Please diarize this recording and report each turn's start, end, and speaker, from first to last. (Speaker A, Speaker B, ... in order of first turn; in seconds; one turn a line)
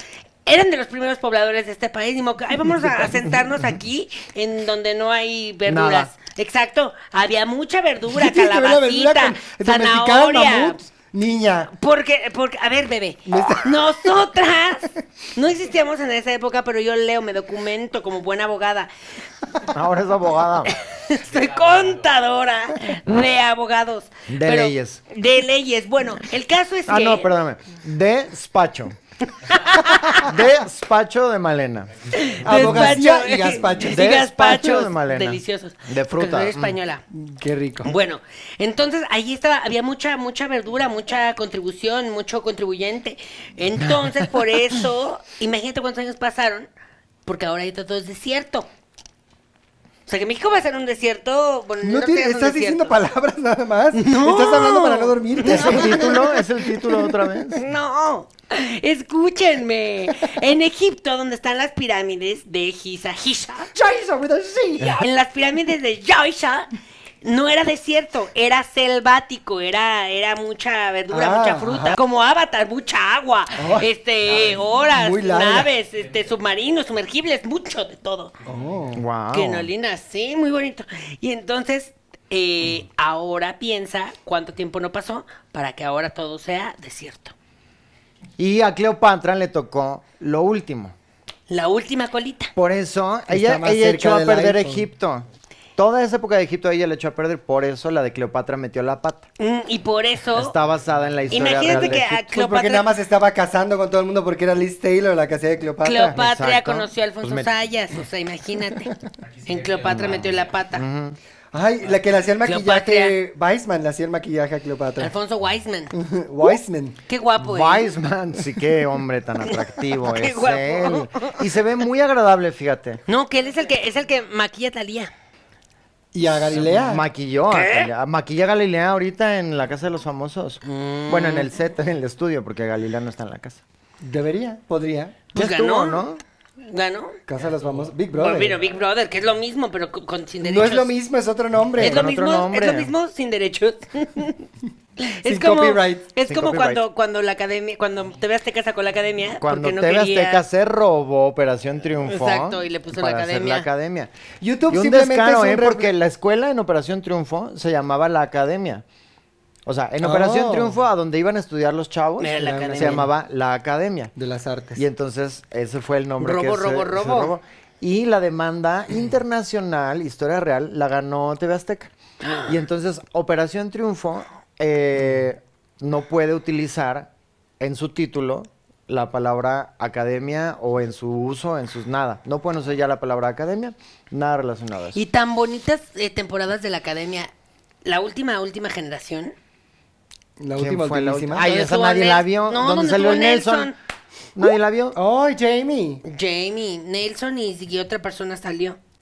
Speaker A: 0.4-10.8
Speaker B: 5.7-6.1
Speaker C: 8.1-11.7
Speaker A: 11.7-18.9
Speaker C: 13.3-14.1
Speaker B: 19.7-20.7
Speaker A: 20.7-27.3
Speaker B: 24.3-25.0
Speaker B: 26.9-28.9
Speaker A: 29.4-30.3
Speaker B: 30.2-32.9
Speaker A: 32.1-37.0
Speaker C: 32.4-34.3
Speaker B: 33.8-36.8
Speaker C: 37.1-37.9
Speaker A: 37.8-46.7
Speaker A: 47.2-48.7
Speaker A: 50.1-53.0
Speaker C: 51.8-56.3
Speaker A: 53.9-56.2
Speaker B: 55.4-57.6
Speaker A: 57.5-63.7
Speaker C: 63.7-65.0
Speaker A: 65.0-66.7
Speaker A: 67.2-78.3
Speaker C: 71.1-72.0
Speaker C: 73.6-73.9
Speaker C: 74.9-75.7
Speaker C: 78.4-79.0
Speaker B: 78.9-79.7
Speaker A: 79.3-87.3
Speaker B: 88.4-90.9
Speaker A: 91.5-92.5
Speaker B: 92.5-95.2
Speaker C: 93.3-94.9
Speaker B: 95.8-99.3
Speaker A: 99.4-100.5
Speaker B: 100.3-102.1
Speaker A: 101.3-102.8
Speaker C: 101.6-106.2
Speaker A: 105.8-108.9
Speaker B: 106.1-107.5
Speaker A: 109.4-110.8
Speaker B: 110.7-111.2
Speaker C: 111.5-115.1
Speaker A: 112.4-113.2
Speaker A: 115.0-116.5
Speaker C: 115.9-117.0
Speaker A: 117.1-117.9
Speaker B: 117.4-123.0
Speaker A: 119.5-121.4
Speaker A: 123.1-125.1
Speaker C: 126.1-127.0
Speaker B: 126.4-133.6
Speaker A: 127.5-127.9
Speaker A: 130.6-131.5
Speaker C: 134.0-135.2
Speaker A: 135.3-136.0
Speaker B: 135.3-136.2
Speaker A: 136.6-137.2
Speaker C: 137.3-138.6
Speaker A: 138.2-140.9
Speaker C: 140.4-142.1
Speaker B: 141.8-142.9
Speaker A: 141.8-144.4
Speaker A: 145.0-150.4
Speaker C: 145.2-146.1
Speaker B: 146.2-146.8
Speaker B: 149.4-154.1
Speaker A: 152.1-153.7
Speaker C: 154.4-155.9
Speaker B: 154.7-158.8
Speaker B: 159.7-164.1
Speaker C: 160.0-160.8
Speaker A: 162.2-163.0
Speaker C: 162.4-163.1
Speaker C: 164.2-164.8
Speaker B: 164.8-171.9
Speaker A: 166.2-167.3
Speaker A: 172.2-172.6
Speaker B: 172.5-185.0
Speaker A: 184.9-187.3
Speaker A: 187.8-189.3
Speaker C: 190.4-191.5
Speaker B: 190.6-193.7
Speaker A: 191.4-193.8
Speaker B: 194.3-195.0
Speaker C: 194.9-196.0
Speaker A: 196.0-198.8